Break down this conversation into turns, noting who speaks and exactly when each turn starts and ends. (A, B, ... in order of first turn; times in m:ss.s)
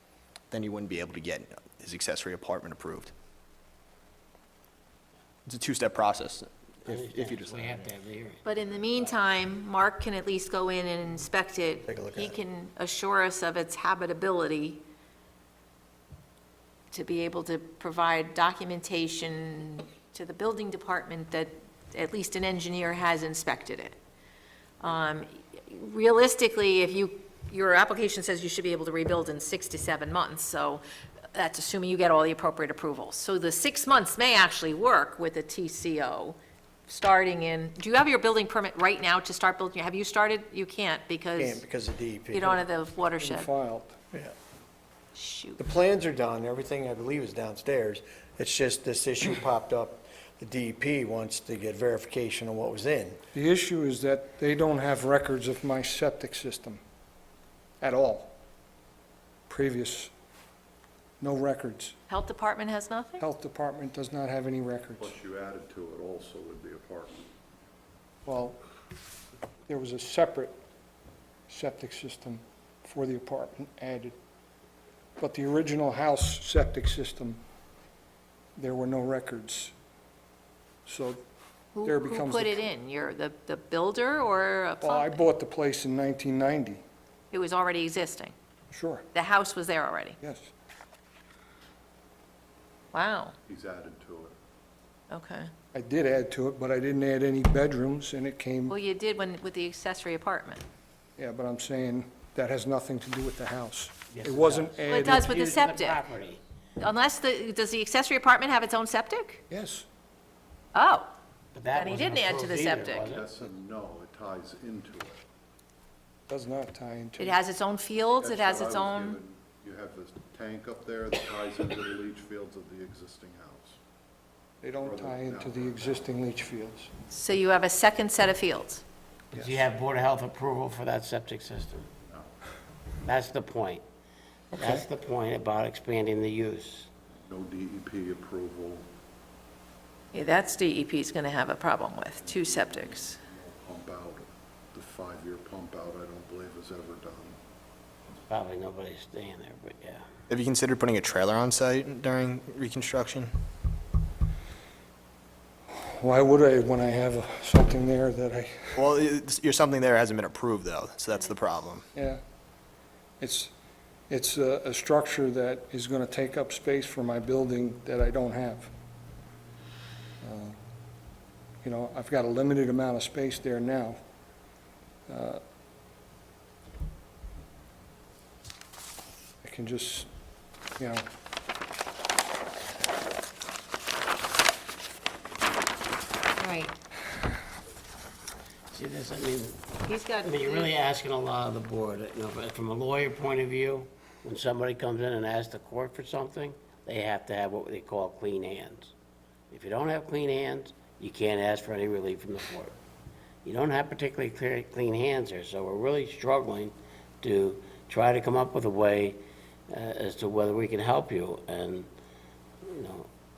0:00.5-0:03.1 A
0:05.4-0:07.9 A
0:06.9-0:09.2 B
0:08.4-0:14.8 C
0:11.8-0:12.4 D
0:16.9-0:24.0 C
0:24.8-0:41.6 C
0:41.4-0:42.6 D
0:42.3-0:43.5 C
0:43.1-0:44.0 E
0:45.1-0:45.6 C
0:45.6-0:53.2 D
0:53.3-0:56.8 E
0:57.8-0:58.3 E
0:59.5-1:00.1 E
1:01.2-1:02.0 E
1:02.1-1:03.2 C
1:03.2-1:05.1 E
1:05.0-1:07.2 F
1:08.2-1:08.6 E
1:09.7-1:10.5 E
1:11.5-1:14.2 E
1:15.2-1:17.4 E
1:18.6-1:19.7 E
1:20.8-1:21.2 E
1:21.7-1:25.2 C
1:21.8-1:22.6 E
1:24.8-1:26.8 E
1:27.3-1:28.3 C
1:28.7-1:29.0 E
1:29.1-1:30.2 C
1:30.2-1:30.5 E
1:32.9-1:33.4 C
1:33.4-1:34.4 F
1:35.1-1:35.5 C
1:35.7-1:38.8 E
1:38.7-1:40.6 C
1:41.2-1:45.3 E
1:44.1-1:46.4 B
1:44.9-1:46.0 C
1:46.8-1:49.4 C
1:49.5-1:49.8 E
1:50.7-1:51.1 C
1:51.5-1:53.3 B
1:51.7-1:53.1 C
1:52.7-1:55.2 F
1:56.3-1:57.4 E
1:57.2-1:59.2 C
1:58.2-2:03.8 F
2:04.6-2:06.9 E
2:04.8-2:06.1 F
2:07.1-2:08.8 C
2:09.3-2:11.9 B
2:09.3-2:09.6 E
2:12.0-2:12.3 F
2:13.0-2:13.8 B
2:14.5-2:16.9 B
2:17.2-2:18.9 F
2:20.1-2:23.2 C
2:22.2-2:27.4 F
2:28.1-2:30.0 B
2:30.3-2:33.3 A
2:35.8-2:38.8 E
2:38.8-2:41.8 A
2:41.9-2:42.2 E
2:43.2-2:43.5 E
2:44.1-2:48.7 E
2:50.2-2:50.6 E
2:51.6-2:54.0 E
2:55.1-2:55.4 E
2:59.4-3:00.1 E
3:00.8-3:01.0 E
3:06.4-3:06.8 C
3:08.7-3:09.6 B
3:09.8-3:10.7 C
3:10.2-3:18.9 B
3:19.5-3:22.8 B
3:23.4-3:31.9 B
3:32.6-3:33.1 B